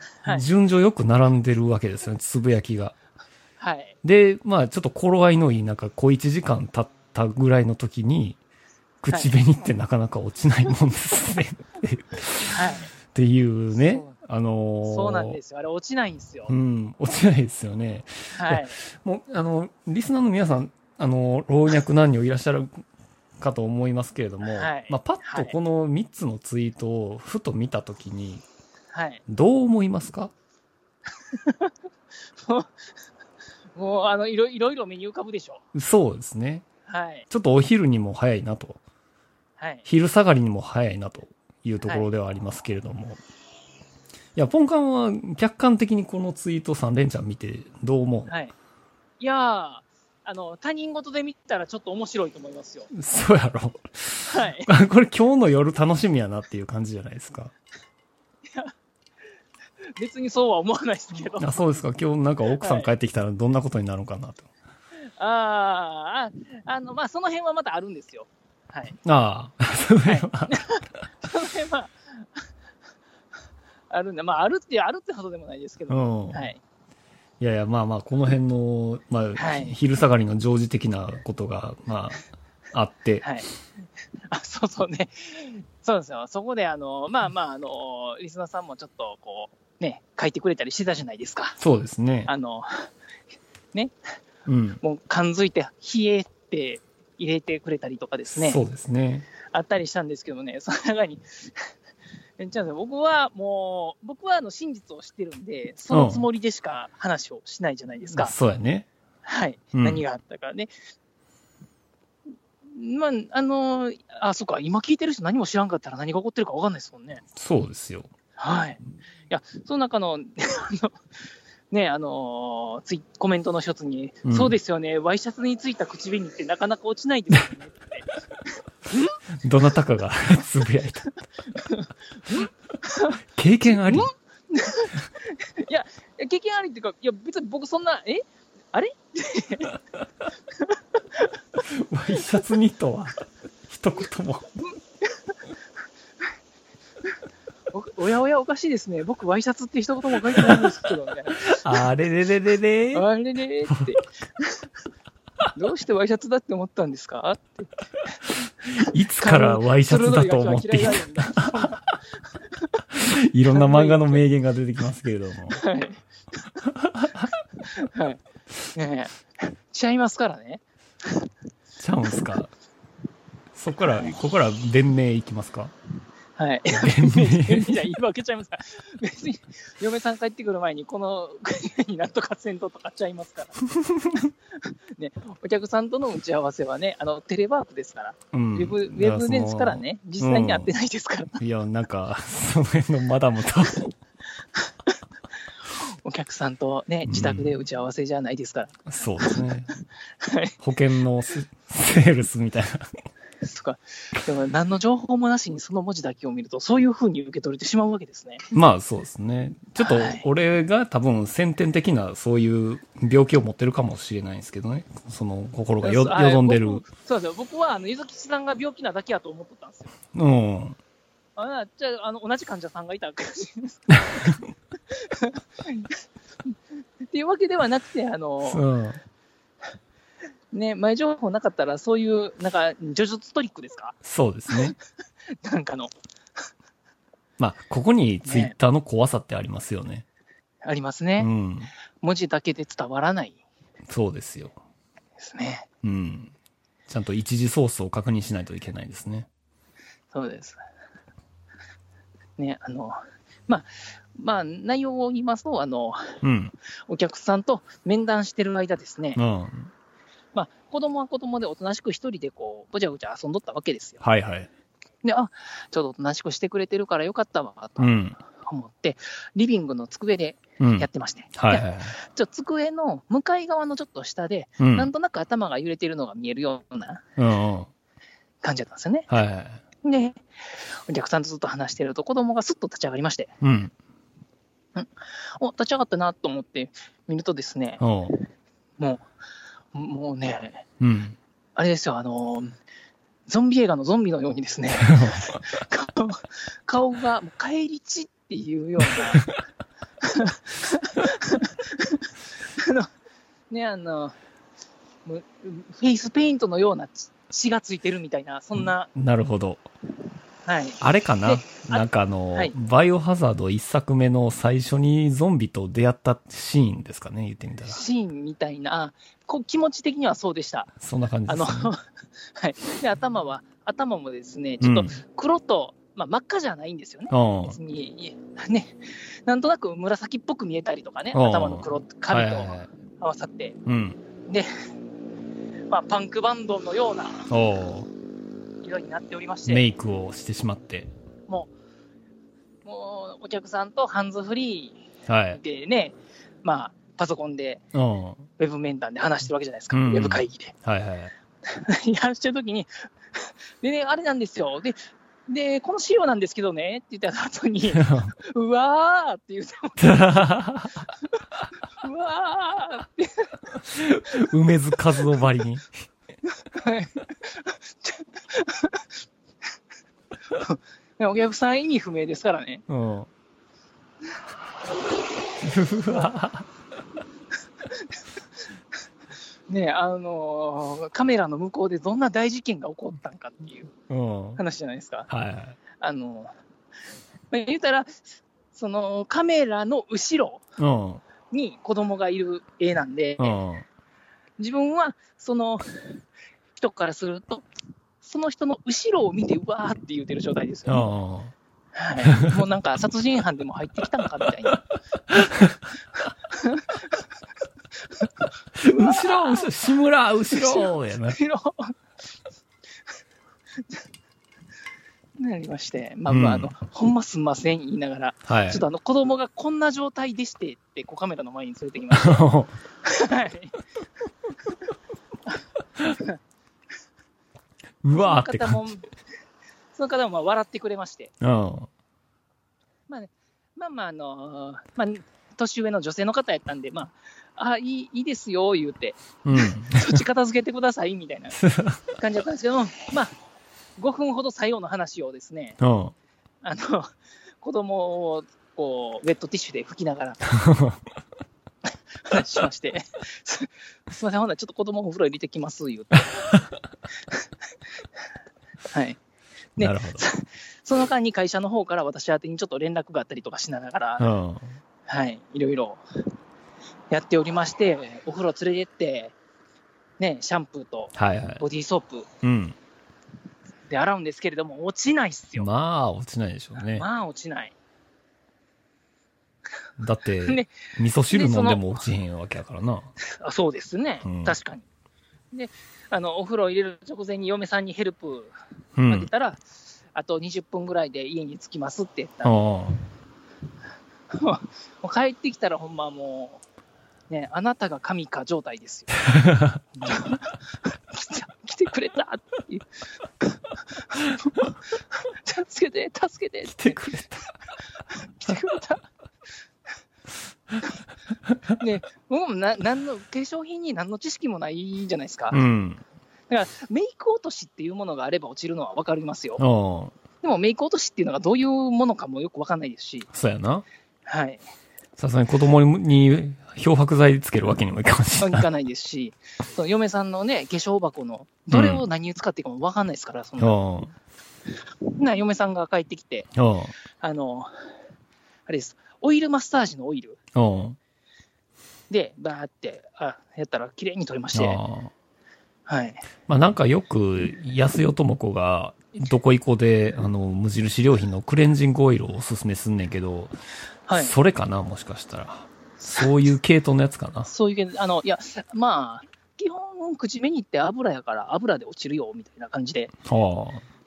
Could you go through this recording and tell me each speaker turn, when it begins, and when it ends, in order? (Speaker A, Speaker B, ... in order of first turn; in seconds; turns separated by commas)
Speaker A: 0.2-3.0, Speaker B: 3.6-4.0, Speaker A: 4.0-8.4, Speaker A: 9.0-15.4, Speaker B: 9.1-9.4, Speaker B: 12.5-12.9, Speaker B: 13.8-14.1, Speaker B: 14.8-16.5, Speaker A: 16.5-22.8, Speaker B: 18.3-18.8, Speaker A: 23.4-28.4, Speaker B: 24.5-25.6, Speaker B: 28.9-29.2, Speaker A: 29.3-30.3, Speaker B: 31.3-31.7, Speaker B: 33.8-35.6, Speaker A: 35.7-36.6, Speaker B: 36.9-37.3, Speaker A: 37.3-38.8, Speaker B: 39.6-39.9, Speaker A: 39.9-43.2, Speaker A: 44.4-48.3, Speaker B: 48.3-48.5, Speaker B: 49.2-52.9, Speaker A: 52.9-57.5, Speaker B: 54.3-54.7, Speaker B: 60.0-61.6, Speaker A: 61.4-64.5, Speaker B: 62.5-62.9, Speaker B: 65.2-69.0, Speaker A: 69.0-70.7, Speaker B: 70.0-72.4, Speaker B: 73.9-76.6, Speaker A: 75.9-76.5, Speaker A: 77.4-83.2, Speaker B: 79.4-79.8, Speaker B: 83.2-83.5, Speaker B: 84.3-91.6, Speaker A: 91.6-92.3, Speaker B: 92.3-92.7, Speaker A: 94.5-94.8, Speaker B: 94.8-98.6, Speaker A: 98.3-99.3, Speaker B: 99.5-101.7, Speaker B: 102.4-108.3, Speaker A: 105.9-106.3, Speaker A: 108.1-108.9, Speaker B: 109.2-110.7, Speaker A: 109.7-110.0, Speaker B: 112.7-117.2, Speaker A: 117.3-118.1, Speaker B: 118.4-121.0, Speaker B: 121.7-128.1, Speaker A: 124.3-124.5, Speaker B: 128.9-129.2, Speaker A: 129.4-131.1, Speaker B: 131.5-139.8, Speaker A: 133.4-134.1, Speaker B: 140.6-141.3, Speaker A: 141.6-143.2, Speaker A: 143.7-144.5, Speaker B: 144.7-145.3, Speaker B: 147.7-151.8, Speaker A: 150.3-150.7, Speaker A: 151.3-153.1, Speaker B: 152.9-154.7, Speaker B: 155.6-157.8, Speaker A: 158.8-161.8, Speaker B: 159.2-161.9, Speaker A: 163.0-165.6, Speaker B: 163.5-164.2, Speaker B: 165.5-166.0, Speaker A: 166.6-167.3, Speaker B: 167.6-168.2, Speaker B: 168.8-170.6, Speaker A: 171.8-172.5, Speaker A: 173.6-175.7, Speaker B: 176.4-183.7, Speaker A: 176.7-177.8, Speaker B: 184.6-191.4, Speaker A: 188.3-190.7, Speaker A: 191.4-193.9, Speaker B: 195.8-199.4, Speaker A: 197.1-197.5, Speaker A: 198.9-199.7, Speaker B: 200.2-200.6, Speaker A: 200.6-202.9, Speaker B: 203.4-208.5, Speaker A: 208.5-216.8, Speaker B: 209.8-210.3, Speaker B: 215.8-220.0, Speaker A: 220.2-220.8, Speaker B: 221.4-224.4, Speaker B: 224.9-226.0, Speaker B: 227.1-228.6, Speaker A: 228.4-229.0, Speaker B: 230.5-234.0, Speaker A: 234.0-234.8, Speaker B: 235.4-235.9, Speaker A: 237.4-240.1, Speaker B: 238.2-238.5, Speaker B: 240.6-241.3, Speaker A: 241.2-241.7, Speaker B: 242.0-243.4, Speaker A: 243.9-244.6, Speaker B: 245.2-245.7, Speaker A: 245.8-246.3, Speaker A: 246.9-249.3, Speaker B: 250.1-250.6, Speaker B: 252.4-256.2, Speaker A: 256.2-256.5, Speaker B: 256.9-259.2, Speaker A: 259.1-259.7, Speaker B: 260.3-264.0, Speaker A: 264.0-264.5, Speaker B: 265.0-277.1, Speaker A: 267.8-268.2, Speaker A: 270.6-272.0, Speaker A: 274.6-274.9, Speaker A: 277.2-277.7, Speaker B: 278.4-279.1, Speaker A: 279.1-279.6, Speaker B: 279.8-280.2, Speaker B: 280.9-283.3, Speaker A: 283.4-283.7, Speaker B: 284.8-287.8, Speaker A: 287.8-288.1, Speaker B: 288.8-289.1, Speaker B: 289.7-290.6, Speaker A: 290.8-291.2, Speaker B: 291.6-292.5, Speaker B: 293.3-299.3, Speaker A: 294.8-295.3, Speaker B: 300.0-302.9, Speaker B: 303.5-304.2, Speaker B: 305.1-308.9, Speaker A: 308.9-309.6, Speaker B: 310.4-312.6, Speaker A: 310.8-317.8, Speaker B: 317.7-320.7, Speaker A: 320.8-321.7, Speaker B: 321.3-321.8, Speaker B: 322.4-333.6, Speaker A: 324.6-324.9, Speaker A: 327.1-327.6, Speaker A: 331.1-332.7, Speaker A: 333.7-334.0, Speaker B: 335.7-337.3, Speaker A: 337.3-337.9, Speaker B: 338.6-339.6, Speaker A: 339.5-340.9, Speaker B: 342.6-347.6, Speaker A: 345.1-345.4, Speaker A: 347.7-348.3, Speaker B: 348.4-350.6, Speaker A: 349.7-351.1, Speaker B: 351.5-360.2, Speaker A: 357.7-358.1, Speaker A: 359.8-360.8, Speaker B: 361.8-363.3, Speaker A: 363.6-365.7, Speaker B: 366.4-368.9, Speaker B: 370.3-372.6, Speaker A: 372.7-373.1, Speaker A: 375.4-376.5, Speaker B: 377.7-378.0, Speaker B: 379.5-383.7, Speaker A: 383.9-384.4, Speaker B: 384.4-385.1, Speaker A: 385.1-385.6, Speaker B: 385.8-386.3, Speaker B: 387.3-390.4, Speaker A: 390.6-391.0, Speaker B: 391.3-393.4, Speaker A: 393.2-393.7, Speaker B: 394.4-396.0, Speaker B: 396.6-397.5, Speaker B: 398.0-400.9, Speaker A: 400.7-401.3, Speaker B: 401.8-404.6, Speaker A: 402.0-402.3, Speaker B: 406.3-407.1, Speaker A: 408.6-411.2, Speaker B: 408.6-409.5, Speaker B: 410.3-411.7, Speaker B: 415.2-422.3, Speaker A: 416.1-416.5, Speaker A: 418.3-418.6, Speaker A: 421.9-422.6, Speaker B: 422.8-423.6, Speaker B: 425.8-426.2, Speaker A: 427.8-428.7, Speaker B: 427.9-428.9, Speaker B: 429.7-431.1, Speaker A: 431.2-431.7, Speaker B: 432.9-441.4, Speaker A: 439.2-440.0, Speaker A: 441.4-441.9, Speaker B: 441.9-443.1, Speaker B: 443.8-445.6, Speaker A: 445.6-445.9, Speaker B: 446.4-450.3, Speaker A: 450.4-450.8, Speaker B: 452.1-456.3, Speaker B: 458.7-459.0, Speaker A: 459.6-460.1, Speaker B: 459.6-464.1, Speaker A: 464.0-464.6, Speaker B: 464.9-465.8, Speaker B: 466.9-469.1, Speaker B: 470.0-472.1, Speaker A: 470.9-471.4, Speaker A: 472.2-472.6, Speaker B: 473.7-475.5, Speaker A: 475.4-476.9, Speaker B: 476.6-477.6, Speaker A: 479.8-482.9, Speaker B: 480.2-481.7, Speaker B: 483.2-484.6, Speaker A: 484.0-484.4, Speaker B: 485.3-488.4, Speaker A: 488.8-489.1, Speaker B: 488.9-492.4, Speaker A: 492.2-492.8, Speaker B: 494.1-496.4, Speaker B: 497.1-499.1, Speaker A: 499.1-499.6, Speaker B: 499.8-502.7, Speaker B: 503.2-506.8, Speaker A: 506.5-507.3, Speaker B: 508.0-508.9, Speaker B: 511.6-515.4, Speaker A: 515.3-515.8, Speaker B: 516.3-519.4, Speaker A: 519.4-520.0, Speaker B: 520.2-523.1, Speaker A: 523.1-523.6, Speaker B: 524.1-524.5, Speaker A: 525.0-528.5, Speaker B: 528.2-533.6, Speaker A: 531.5-531.8, Speaker A: 533.4-533.9, Speaker B: 535.0-536.3, Speaker A: 536.4-536.7, Speaker B: 537.0-537.5, Speaker B: 538.5-540.2, Speaker A: 540.4-540.8, Speaker B: 541.9-544.6, Speaker A: 544.3-544.9, Speaker B: 545.7-546.1, Speaker A: 546.3-553.4, Speaker B: 553.9-554.1, Speaker A: 553.9-557.3, Speaker B: 557.3-562.9, Speaker A: 563.1-563.6